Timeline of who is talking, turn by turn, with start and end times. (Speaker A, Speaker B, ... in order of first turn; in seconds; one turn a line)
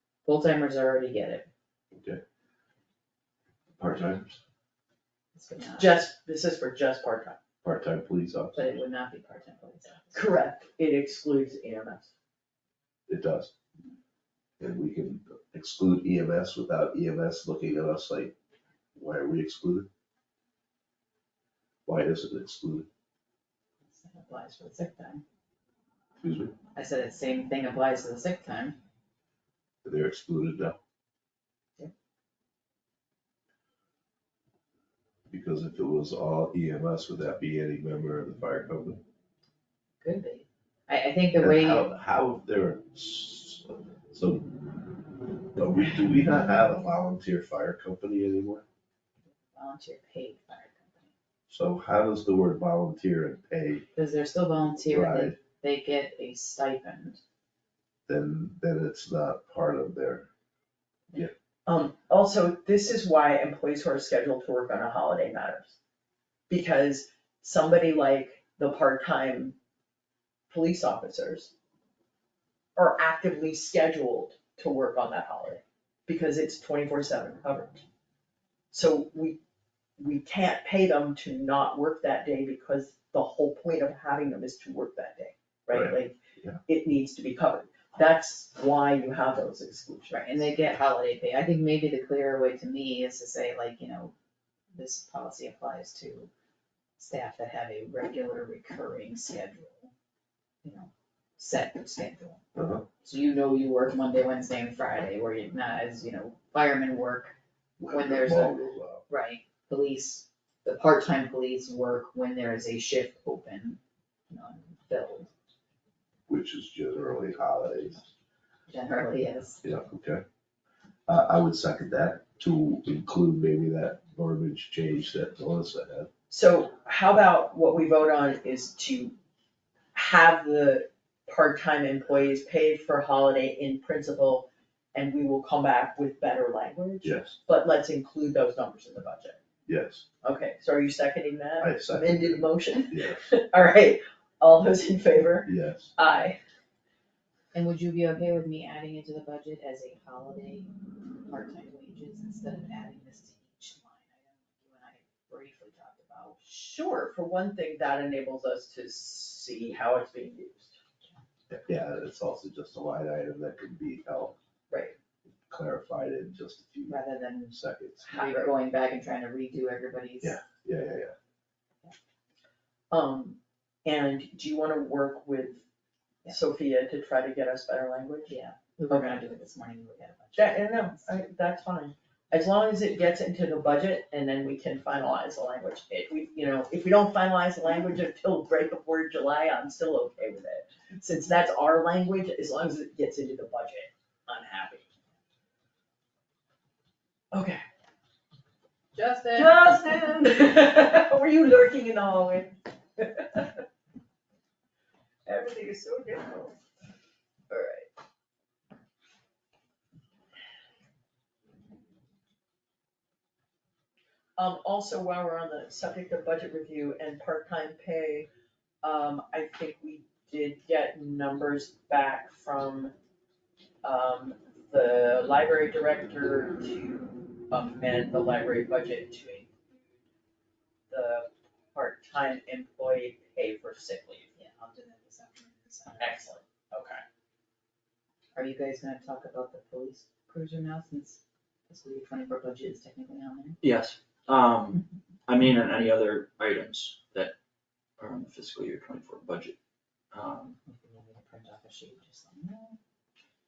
Speaker A: 0.2-1.5
Speaker B: 1.9-2.2
Speaker B: 3.8-4.4
Speaker A: 5.3-6.0
Speaker C: 5.8-7.4
Speaker B: 7.6-8.6
Speaker A: 8.5-10.3
Speaker C: 10.1-12.1
Speaker B: 13.1-13.5
Speaker B: 14.6-18.3
Speaker B: 18.9-19.9
Speaker B: 21.9-22.9
Speaker A: 23.9-25.2
Speaker B: 26.2-26.6
Speaker A: 26.7-28.8
Speaker B: 29.8-30.8
Speaker B: 35.3-39.0
Speaker A: 40.0-41.9
Speaker B: 41.4-44.8
Speaker B: 45.5-48.6
Speaker A: 49.5-51.1
Speaker B: 51.5-53.9
Speaker A: 54.0-57.2
Speaker B: 54.8-55.4
Speaker B: 58.1-60.3
Speaker C: 61.6-65.8
Speaker C: 66.5-69.5
Speaker C: 70.5-71.5
Speaker C: 72.8-77.8
Speaker C: 78.7-79.4
Speaker C: 80.0-86.2
Speaker B: 85.7-86.6
Speaker C: 86.7-90.4
Speaker A: 90.1-94.1
Speaker A: 94.7-96.3
Speaker A: 97.0-99.9
Speaker A: 100.6-102.4
Speaker B: 102.5-102.8
Speaker A: 103.0-107.3
Speaker B: 107.8-109.0
Speaker A: 107.9-108.5
Speaker A: 109.1-113.8
Speaker A: 114.3-115.3
Speaker B: 116.3-118.0
Speaker A: 118.7-119.6
Speaker B: 119.6-120.2
Speaker B: 121.1-126.1
Speaker C: 126.3-129.1
Speaker C: 129.9-139.4
Speaker B: 137.0-137.4
Speaker B: 139.7-140.1
Speaker C: 140.2-146.4
Speaker B: 141.6-143.2
Speaker B: 145.4-145.9
Speaker A: 147.5-156.4
Speaker C: 156.4-160.8
Speaker B: 161.5-164.4
Speaker C: 164.7-164.9
Speaker B: 165.4-168.0
Speaker A: 166.9-170.4
Speaker C: 168.0-168.5
Speaker B: 170.2-171.1
Speaker C: 172.9-175.6
Speaker C: 176.3-178.3
Speaker A: 178.3-181.1
Speaker C: 178.9-179.2
Speaker C: 180.3-194.8
Speaker C: 197.3-197.6
Speaker A: 198.9-199.6
Speaker C: 199.3-203.6
Speaker C: 205.2-206.6
Speaker C: 207.5-207.9
Speaker C: 214.4-218.3
Speaker C: 218.8-222.9
Speaker C: 223.8-229.6
Speaker C: 230.9-234.3
Speaker A: 234.4-236.2
Speaker C: 236.0-237.0
Speaker A: 238.3-243.6
Speaker D: 243.6-247.3
Speaker D: 248.0-249.6
Speaker D: 250.1-250.6
Speaker A: 250.6-252.8